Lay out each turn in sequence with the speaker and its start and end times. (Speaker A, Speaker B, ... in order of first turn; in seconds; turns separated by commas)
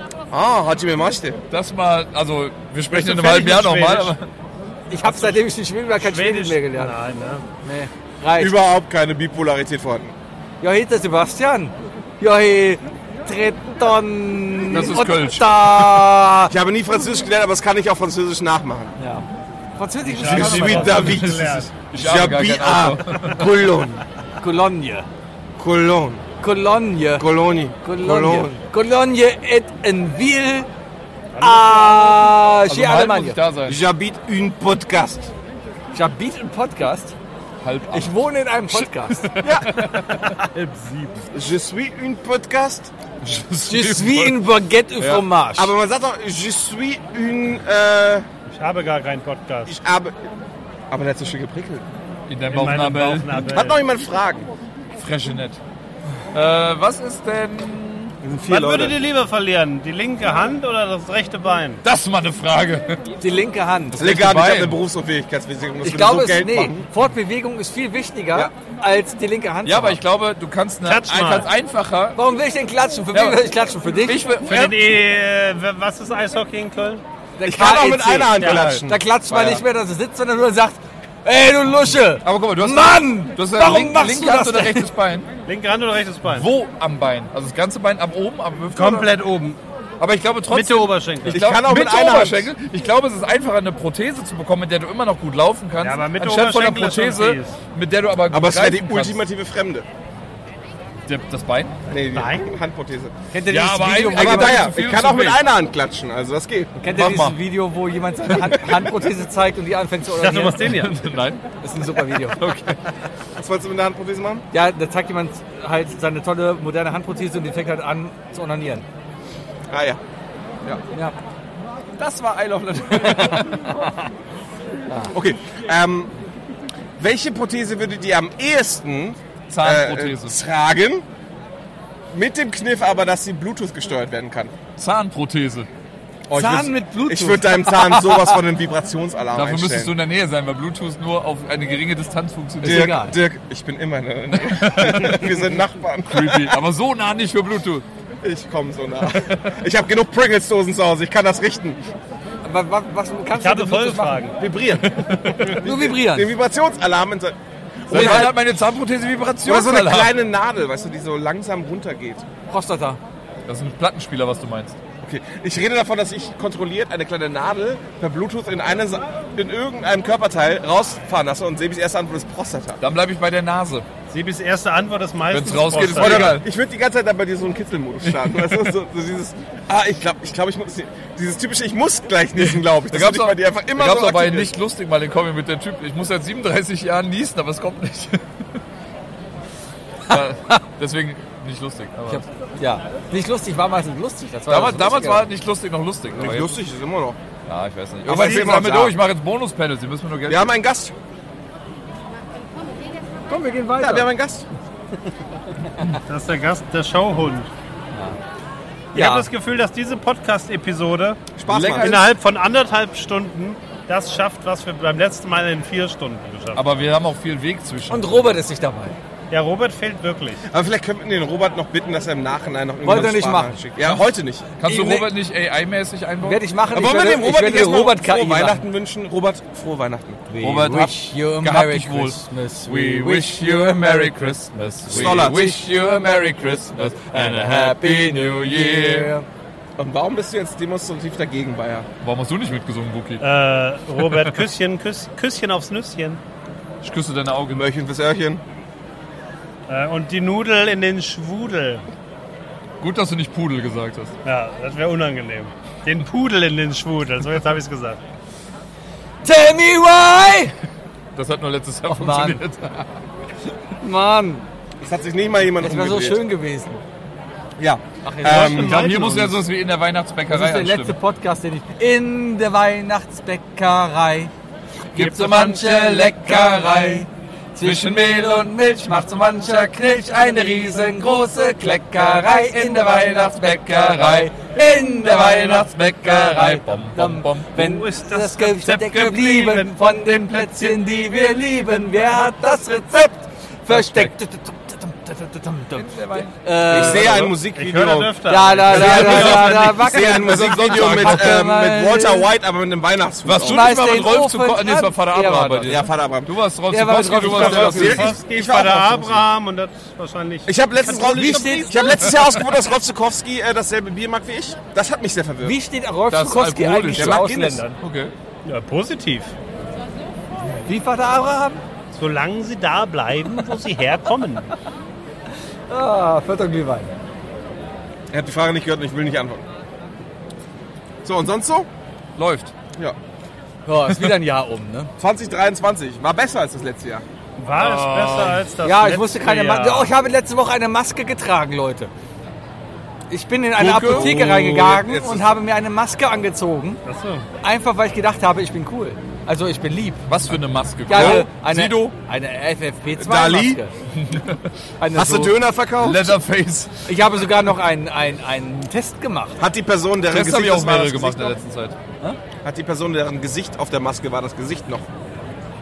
Speaker A: 0.3-1.4, Speaker B: 1.5-4.3, Speaker C: 2.9-4.1, Speaker D: 4.9-7.0, Speaker C: 5.0-5.4, Speaker C: 6.0-7.5, Speaker D: 7.6-8.6, Speaker A: 8.4-10.1, Speaker D: 10.6-16.5, Speaker B: 14.7-16.0, Speaker A: 16.5-18.9, Speaker D: 19.0-19.3, Speaker D: 19.8-21.0, Speaker C: 20.1-21.7, Speaker B: 20.3-23.4, Speaker A: 20.3-24.0, Speaker D: 24.4-25.1, Speaker A: 25.6-26.2, Speaker D: 26.4-27.3, Speaker A: 27.2-28.6, Speaker D: 27.8-30.7, Speaker C: 31.4-32.2, Speaker D: 31.4-33.4, Speaker B: 32.7-33.8, Speaker A: 33.7-35.3, Speaker D: 35.9-37.1, Speaker B: 37.6-38.1, Speaker D: 37.9-39.2, Speaker B: 39.1-40.6, Speaker A: 39.4-39.9, Speaker A: 41.3-42.9, Speaker B: 43.2-44.4, Speaker D: 43.7-45.7, Speaker B: 45.0-45.2, Speaker A: 45.5-48.3, Speaker C: 48.5-49.7, Speaker A: 49.7-50.2, Speaker A: 50.9-51.9, Speaker B: 52.3-53.5, Speaker C: 52.5-53.8, Speaker A: 53.5-54.5, Speaker B: 55.0-55.6, Speaker B: 56.3-58.1, Speaker A: 58.2-59.0, Speaker C: 58.5-61.8, Speaker B: 61.8-63.0, Speaker D: 63.2-64.0, Speaker B: 63.9-64.8, Speaker A: 64.0-66.9, Speaker D: 65.8-70.0, Speaker B: 69.7-72.2, Speaker C: 70.8-71.5, Speaker D: 72.2-74.2, Speaker B: 73.1-73.4, Speaker B: 74.0-75.0, Speaker C: 74.5-77.0, Speaker D: 77.4-84.9, Speaker A: 77.4-79.6, Speaker C: 78.4-78.8, Speaker B: 82.2-85.3, Speaker C: 85.5-86.5, Speaker B: 86.3-89.2, Speaker C: 88.7-89.6, Speaker B: 90.0-99.2, Speaker C: 90.5-91.4, Speaker A: 91.3-92.5, Speaker C: 95.8-97.6, Speaker A: 98.3-99.9, Speaker B: 101.1-101.8, Speaker A: 101.9-103.1, Speaker C: 102.1-102.5, Speaker D: 103.3-104.7, Speaker B: 103.5-105.4, Speaker A: 104.1-106.8, Speaker D: 106.8-110.7, Speaker B: 106.9-107.4, Speaker C: 110.2-111.0, Speaker B: 110.6-111.6, Speaker D: 111.6-112.4, Speaker B: 112.2-112.8, Speaker A: 113.4-114.5, Speaker D: 114.5-118.8, Speaker A: 119.7-120.0, Speaker B: 122.0-123.7, Speaker D: 123.0-123.5, Speaker A: 125.1-126.1, Speaker A: 127.0-131.1, Speaker B: 129.5-130.3, Speaker A: 132.1-134.5, Speaker B: 134.8-135.7, Speaker A: 136.3-139.9, Speaker D: 136.3-138.4, Speaker B: 139.3-143.0, Speaker D: 142.6-143.2, Speaker A: 142.6-146.6, Speaker B: 144.3-145.4, Speaker B: 146.1-147.8, Speaker A: 148.2-151.8, Speaker B: 149.2-149.4, Speaker D: 152.4-154.3, Speaker C: 153.3-154.4, Speaker A: 154.4-154.9, Speaker B: 154.8-155.6, Speaker A: 155.4-158.4, Speaker D: 155.6-156.3, Speaker B: 157.9-160.1, Speaker D: 157.9-158.3, Speaker A: 159.4-162.2, Speaker D: 162.5-163.0, Speaker B: 163.5-164.8, Speaker A: 165.0-172.8, Speaker B: 172.8-173.9, Speaker C: 174.1-176.4, Speaker B: 175.3-176.5, Speaker A: 175.9-184.5, Speaker B: 178.1-178.6, Speaker B: 182.4-188.2, Speaker B: 190.1-192.2, Speaker D: 192.1-195.2, Speaker B: 194.5-196.6, Speaker A: 196.1-197.2, Speaker B: 197.5-200.6, Speaker A: 198.1-199.0, Speaker A: 200.3-200.9, Speaker D: 203.3-204.1, Speaker A: 203.8-204.5, Speaker C: 206.1-207.5, Speaker C: 208.9-211.2, Speaker D: 208.9-209.3, Speaker A: 211.4-212.0, Speaker B: 211.5-212.1, Speaker C: 211.8-216.7, Speaker B: 216.6-218.4, Speaker D: 217.9-219.0, Speaker C: 219.3-220.4, Speaker A: 220.5-224.5, Speaker D: 222.8-223.7, Speaker B: 224.6-226.4, Speaker D: 224.6-225.1, Speaker D: 226.2-228.6, Speaker A: 226.7-230.2, Speaker D: 230.3-236.1, Speaker B: 230.4-239.1, Speaker A: 234.9-235.6, Speaker D: 237.1-239.3, Speaker A: 239.8-241.9, Speaker B: 242.0-243.2, Speaker C: 243.2-246.2, Speaker B: 244.0-244.3, Speaker B: 246.8-247.6, Speaker A: 247.5-248.4, Speaker C: 249.7-251.8, Speaker B: 252.8-254.1, Speaker C: 254.2-258.0, Speaker D: 259.2-260.5, Speaker B: 261.1-262.9, Speaker D: 261.9-262.4, Speaker D: 263.8-264.5, Speaker A: 264.8-266.2, Speaker D: 265.6-266.8, Speaker A: 267.6-268.8, Speaker D: 268.0-268.9, Speaker C: 268.2-269.4, Speaker B: 268.4-271.0, Speaker D: 270.3-274.3, Speaker D: 274.9-297.4, Speaker B: 274.9-277.1, Speaker B: 277.6-278.5, Speaker B: 283.4-284.3, Speaker B: 285.1-287.5, Speaker C: 287.6-289.7, Speaker B: 293.7-294.1, Speaker B: 295.8-296.3, Speaker A: 296.7-303.7, Speaker C: 297.6-299.8, Speaker D: 298.3-302.3, Speaker B: 298.7-301.4, Speaker B: 303.2-308.2, Speaker D: 303.4-305.8, Speaker A: 305.7-306.3, Speaker D: 306.7-308.1, Speaker A: 307.2-309.2, Speaker C: 307.3-311.7, Speaker A: 310.5-315.6, Speaker D: 311.0-312.2, Speaker D: 315.4-317.7, Speaker B: 316.1-317.2, Speaker A: 316.9-317.6, Speaker B: 317.8-318.1, Speaker C: 318.4-319.3, Speaker D: 320.5-321.6, Speaker C: 321.9-324.5, Speaker D: 325.7-326.9, Speaker A: 328.1-329.4, Speaker A: 331.0-331.7, Speaker B: 332.2-332.5, Speaker D: 333.7-334.9, Speaker A: 335.0-337.0, Speaker C: 337.4-339.9, Speaker B: 337.6-338.4, Speaker D: 338.6-341.9, Speaker D: 343.1-346.8, Speaker B: 343.6-344.3, Speaker A: 343.7-345.3, Speaker C: 346.9-347.3, Speaker D: 347.4-350.1, Speaker B: 350.1-351.9, Speaker D: 350.9-353.7, Speaker A: 350.9-351.3, Speaker A: 353.0-353.6, Speaker B: 353.9-354.4, Speaker D: 354.8-355.4, Speaker A: 354.9-356.2, Speaker B: 355.8-356.7, Speaker D: 356.9-359.4, Speaker A: 359.4-361.4, Speaker B: 360.1-361.8, Speaker A: 362.4-364.9